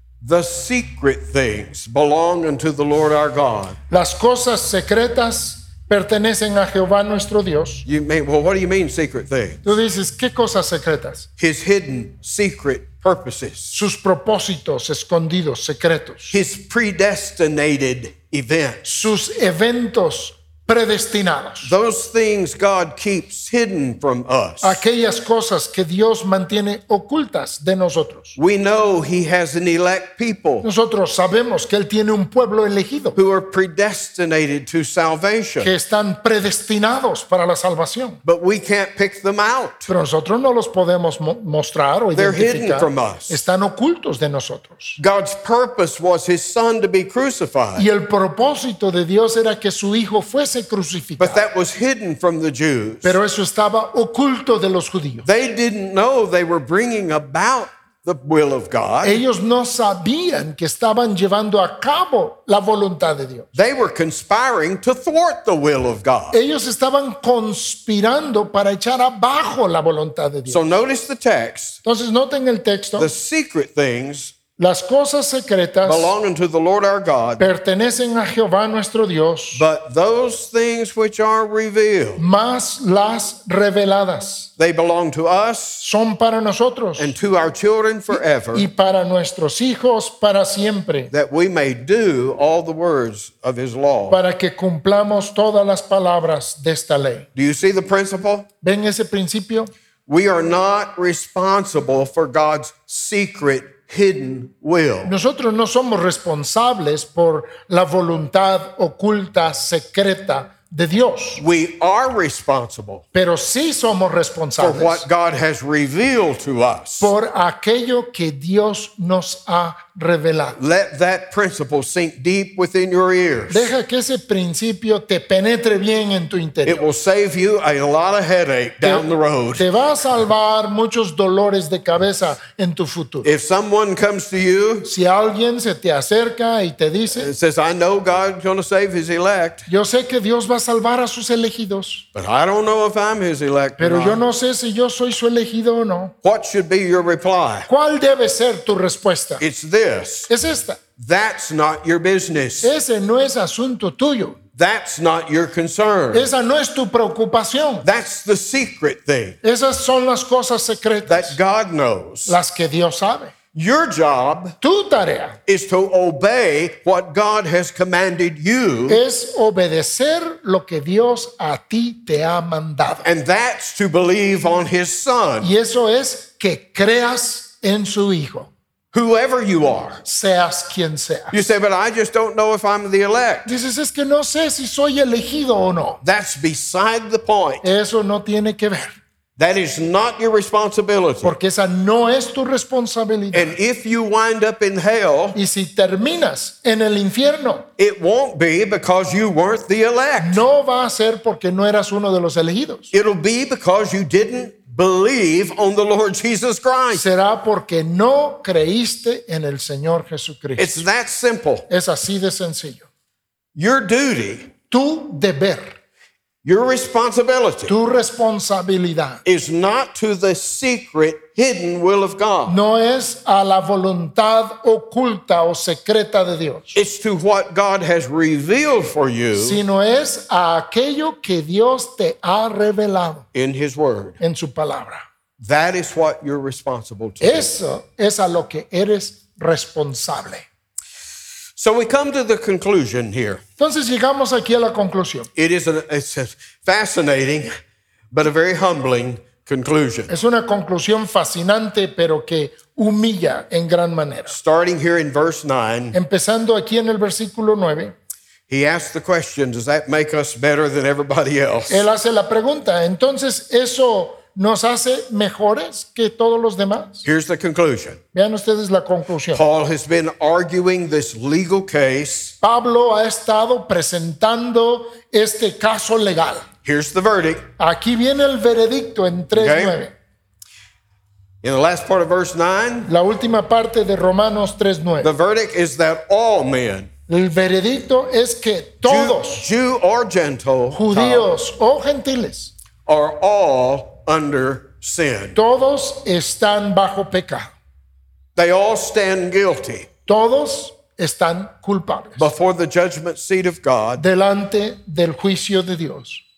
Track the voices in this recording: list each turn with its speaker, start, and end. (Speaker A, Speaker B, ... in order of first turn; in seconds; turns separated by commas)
Speaker A: 0.2-3.8, Speaker B: 3.9-7.8, Speaker A: 7.8-9.6, Speaker B: 9.6-11.3, Speaker A: 11.4-13.8, Speaker B: 13.7-16.4, Speaker A: 16.3-18.8, Speaker B: 18.8-21.7, Speaker A: 21.6-24.8, Speaker B: 24.6-28.4, Speaker A: 28.4-30.6, Speaker B: 30.6-33.2, Speaker A: 33.1-35.7, Speaker B: 35.6-38.2, Speaker A: 38.2-39.9, Speaker B: 39.9-45.0, Speaker A: 42.1-43.4, Speaker A: 45.0-47.9, Speaker B: 47.8-51.4, Speaker A: 51.2-53.2, Speaker B: 53.0-55.3, Speaker A: 55.2-59.2, Speaker B: 59.0-63.5, Speaker A: 63.5-66.4, Speaker B: 66.3-70.6, Speaker A: 70.5-71.8, Speaker B: 71.8-73.1, Speaker A: 73.0-74.3, Speaker B: 74.6-76.1, Speaker A: 75.8-77.4, Speaker B: 77.4-79.7, Speaker A: 79.5-82.2, Speaker B: 82.2-84.5, Speaker A: 84.6-85.8, Speaker B: 85.8-87.1, Speaker A: 87.0-88.7, Speaker B: 88.1-91.1, Speaker A: 91.1-94.2, Speaker B: 94.1-97.3, Speaker A: 97.3-98.5, Speaker B: 98.6-99.7, Speaker A: 100.1-105.1, Speaker B: 105.0-111.4, Speaker A: 111.4-113.0, Speaker B: 113.1-115.0, Speaker A: 114.6-117.1, Speaker B: 117.0-120.6, Speaker A: 120.6-123.7, Speaker B: 123.5-126.8, Speaker A: 126.6-129.6, Speaker B: 128.8-133.3, Speaker A: 133.2-134.9, Speaker B: 134.8-137.3, Speaker A: 137.1-139.7, Speaker B: 139.7-142.1, Speaker A: 142.1-144.2, Speaker B: 143.8-146.1, Speaker A: 146.2-147.7, Speaker B: 147.7-149.4, Speaker A: 149.4-150.3, Speaker B: 150.3-150.8, Speaker A: 151.0-152.7, Speaker B: 152.6-154.4, Speaker A: 154.5-156.3, Speaker B: 156.1-157.8, Speaker A: 157.8-159.4, Speaker B: 159.4-161.4, Speaker A: 161.1-162.3, Speaker B: 162.3-163.3, Speaker A: 163.5-164.5, Speaker B: 164.6-165.4, Speaker A: 165.4-169.0, Speaker B: 168.9-173.1, Speaker A: 173.0-175.5, Speaker B: 175.4-178.5, Speaker A: 178.9-180.0, Speaker B: 180.0-181.4, Speaker A: 181.3-183.5, Speaker B: 183.4-186.0, Speaker A: 186.0-187.7, Speaker B: 187.6-188.9, Speaker A: 189.4-191.3, Speaker B: 191.2-193.5, Speaker A: 193.3-195.4, Speaker B: 195.3-197.7, Speaker A: 197.8-200.4, Speaker B: 200.2-202.9, Speaker A: 202.9-207.0, Speaker B: 206.9-210.8, Speaker A: 210.6-211.7, Speaker B: 211.7-212.9, Speaker A: 213.6-214.5, Speaker B: 214.7-215.7, Speaker A: 216.4-217.7, Speaker B: 217.7-219.2, Speaker A: 219.2-222.6, Speaker B: 222.5-226.8, Speaker A: 226.7-229.6, Speaker B: 229.3-233.2, Speaker A: 233.3-234.2, Speaker B: 234.2-235.0, Speaker A: 235.4-237.5, Speaker B: 237.2-240.4, Speaker A: 241.6-243.4, Speaker B: 243.6-245.3, Speaker A: 245.3-247.5, Speaker A: 248.1-250.1, Speaker B: 250.1-254.4, Speaker A: 254.3-256.0, Speaker B: 255.9-257.9, Speaker A: 258.5-261.9, Speaker B: 261.7-267.0, Speaker A: 267.0-268.0, Speaker B: 268.1-269.4, Speaker A: 269.3-272.3, Speaker B: 272.4-276.5, Speaker A: 276.6-277.4, Speaker B: 277.6-279.9, Speaker A: 279.4-279.8, Speaker A: 281.4-282.9, Speaker B: 282.9-285.1, Speaker A: 285.0-286.9, Speaker B: 287.1-289.5, Speaker A: 288.8-291.3, Speaker B: 290.7-292.5, Speaker A: 292.9-295.4, Speaker B: 295.4-297.5, Speaker A: 298.4-299.9, Speaker B: 300.1-302.3, Speaker A: 302.2-304.0, Speaker B: 304.0-306.2